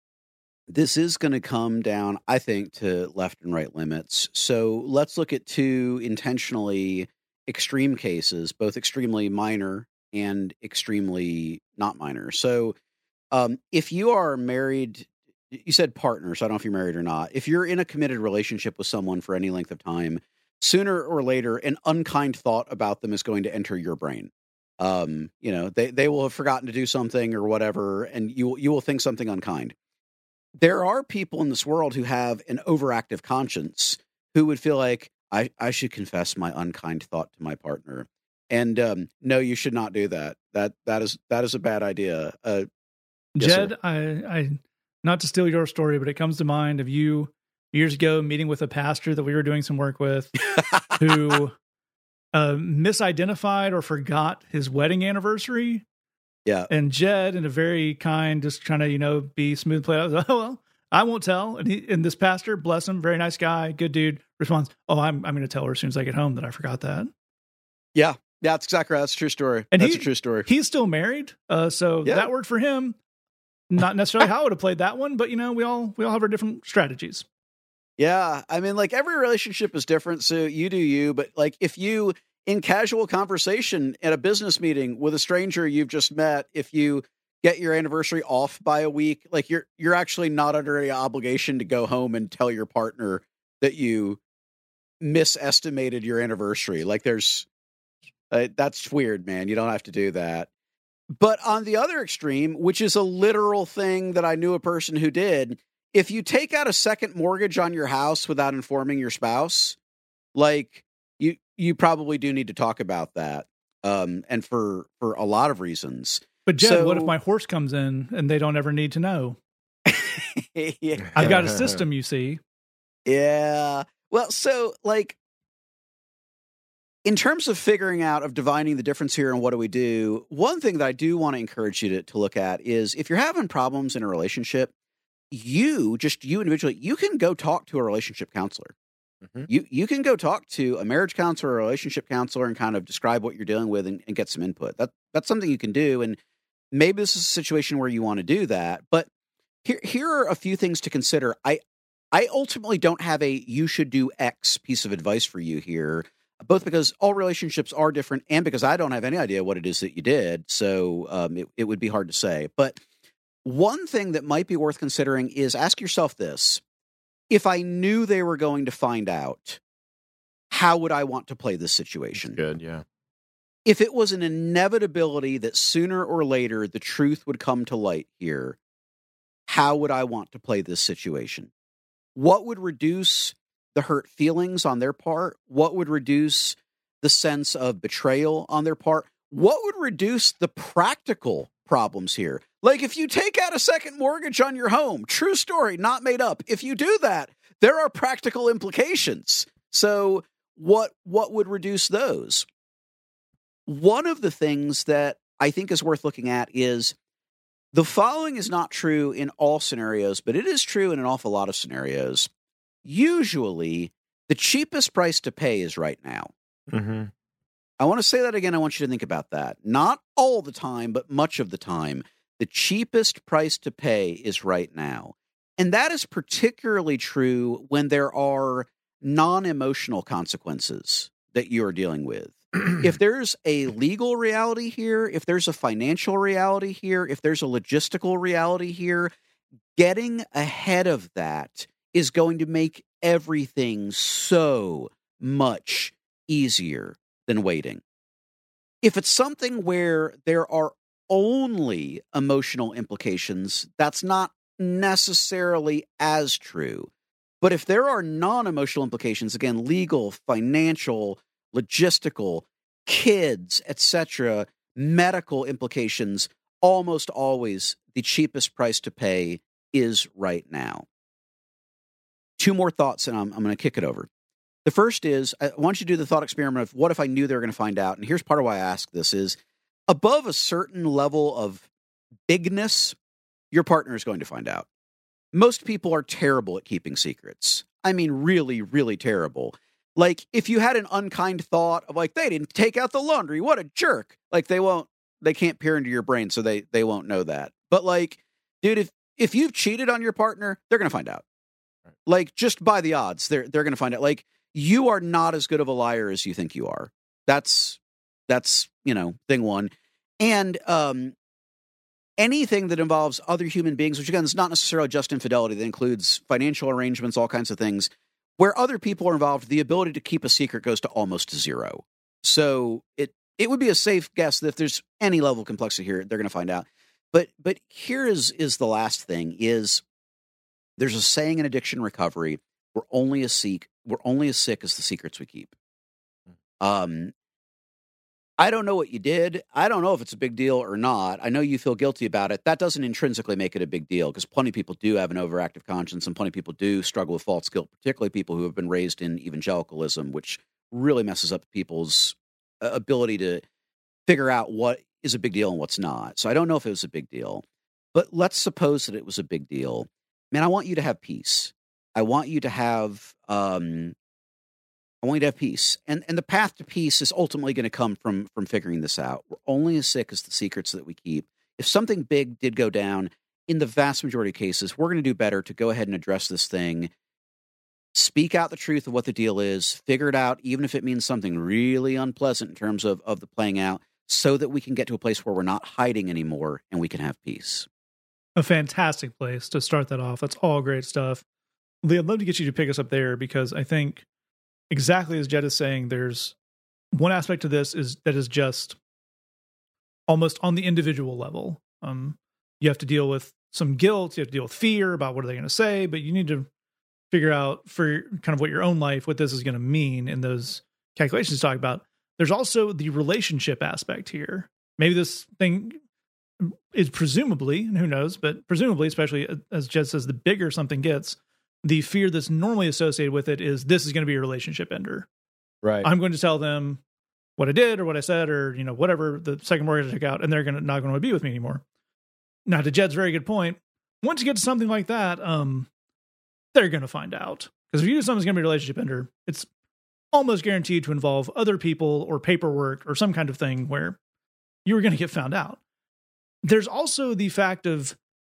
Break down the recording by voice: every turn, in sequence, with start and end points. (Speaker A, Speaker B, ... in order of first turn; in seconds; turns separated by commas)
Speaker A: 0.7-12.8, Speaker A: 13.3-29.8, Speaker A: 30.6-42.7, Speaker B: 43.4-50.4, Speaker A: 43.4-43.7, Speaker B: 51.0-51.5, Speaker B: 52.3-55.8, Speaker B: 56.7-67.1, Speaker A: 68.0-70.5, Speaker B: 69.7-73.0, Speaker B: 73.7-77.3, Speaker A: 78.0-94.2, Speaker A: 95.0-97.5, Speaker A: 98.3-100.5, Speaker A: 101.2-109.8, Speaker A: 110.3-117.1, Speaker B: 116.5-119.4, Speaker A: 119.9-121.4, Speaker C: 121.2-121.8, Speaker B: 121.2-122.4, Speaker A: 123.1-125.2, Speaker A: 127.0-134.7, Speaker A: 135.3-138.7, Speaker A: 139.5-146.2, Speaker A: 146.7-149.1, Speaker A: 149.6-151.6, Speaker A: 152.1-162.8, Speaker A: 163.4-166.6, Speaker A: 167.3-169.6, Speaker A: 170.5-172.4, Speaker C: 172.2-172.8, Speaker A: 173.7-178.6, Speaker A: 179.5-181.5, Speaker A: 182.2-202.5, Speaker A: 203.7-206.9, Speaker A: 207.7-212.3, Speaker A: 212.8-216.3, Speaker C: 216.7-217.1, Speaker A: 217.8-239.1, Speaker A: 239.8-247.8, Speaker A: 248.8-256.9, Speaker A: 257.4-270.9, Speaker A: 272.4-274.1, Speaker A: 274.6-279.4, Speaker A: 279.9-281.7, Speaker A: 282.3-283.0, Speaker A: 283.5-284.7, Speaker A: 285.3-301.2, Speaker A: 302.1-311.1, Speaker A: 312.2-329.8, Speaker A: 330.8-335.5, Speaker A: 336.6-337.1, Speaker A: 338.4-353.4, Speaker A: 354.1-363.9, Speaker A: 365.0-376.9, Speaker A: 377.9-387.7, Speaker B: 388.4-391.2, Speaker B: 391.8-394.0, Speaker B: 394.7-396.4, Speaker B: 396.9-398.8, Speaker B: 400.1-406.5, Speaker B: 407.1-415.8, Speaker B: 416.4-425.1, Speaker C: 425.6-425.9, Speaker B: 425.8-426.8, Speaker B: 427.4-431.6, Speaker B: 432.5-435.7, Speaker B: 436.5-439.5, Speaker B: 440.1-444.0, Speaker B: 444.6-445.6, Speaker B: 446.4-448.0